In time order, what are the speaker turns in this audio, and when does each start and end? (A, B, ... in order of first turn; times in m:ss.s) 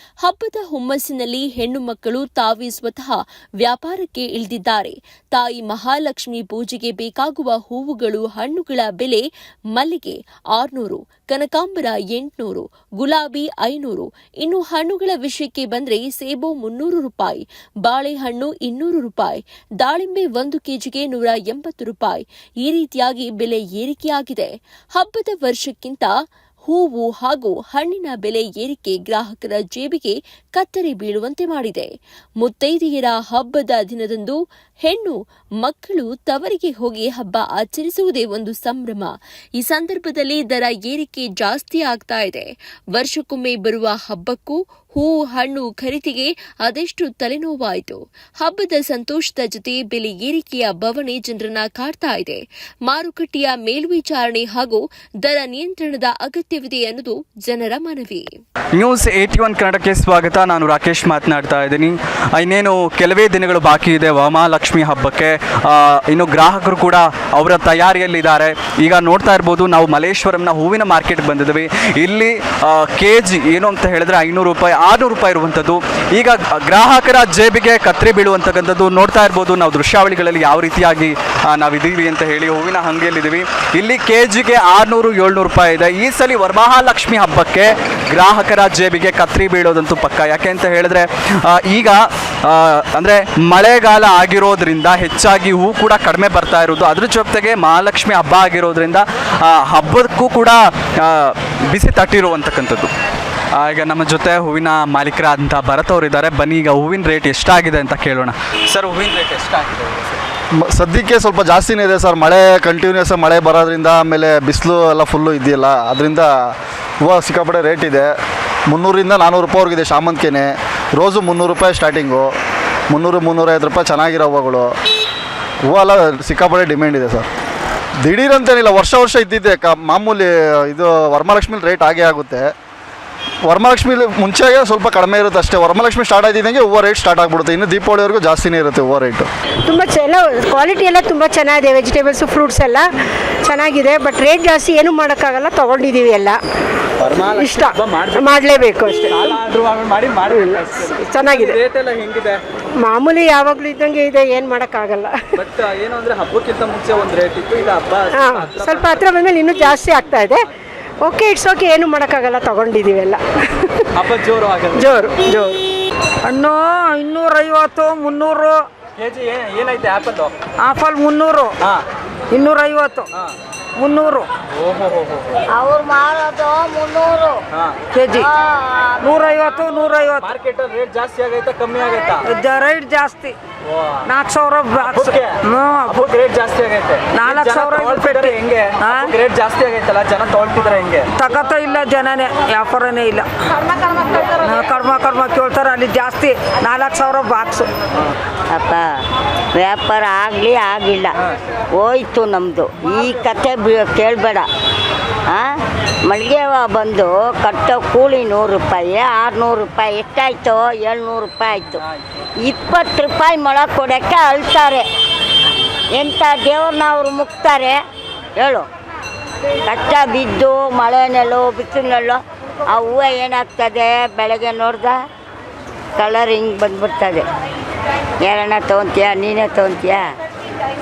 0:00.2-0:09.2 A
0:09.8-0:26.1 A
0:26.7-0:31.9 A
0:32.4-0:58.3 A
0:58.8-1:42.9 B
1:43.6-1:50.2 B
1:50.6-1:56.3 C
1:57.0-1:58.1 C
1:58.7-2:02.3 C
2:02.9-2:04.7 C
2:05.7-2:07.3 C
2:08.0-2:12.5 C
2:13.5-2:19.3 C
2:19.7-2:22.9 D
2:23.4-2:26.4 D
2:27.0-2:28.3 B
2:27.2-2:29.4 D
2:29.1-2:32.4 B
2:30.3-2:31.6 D
2:32.8-2:35.2 D
2:35.4-2:39.0 B
2:38.1-2:40.5 D
2:41.0-2:43.9 D
2:44.0-2:44.8 B
2:44.8-2:45.2 D
2:45.2-2:45.6 E
2:46.2-2:48.6 E
2:49.0-2:50.3 B
2:50.6-2:51.5 E
2:52.3-2:53.1 E
2:53.8-2:54.3 E
2:54.6-2:55.4 B
2:55.5-2:57.4 F
2:57.9-2:58.3 E
2:58.2-2:59.1 F
2:59.0-3:00.3 E
3:00.2-3:02.2 B
3:02.2-3:03.4 E
3:04.0-3:06.0 E
3:04.9-3:05.4 B
3:05.9-3:11.1 B
3:07.1-3:09.2 E
3:11.2-3:13.3 E
3:14.1-3:17.7 E
3:18.5-3:18.9 F
3:19.5-3:21.1 F
3:21.7-3:24.5 F
3:25.3-3:31.8 F
3:32.4-3:34.9 F
3:35.9-3:37.8 F
3:38.4-3:38.7 F
3:39.7-3:45.0 F
3:46.0-3:47.3 F
3:48.2-3:50.1 F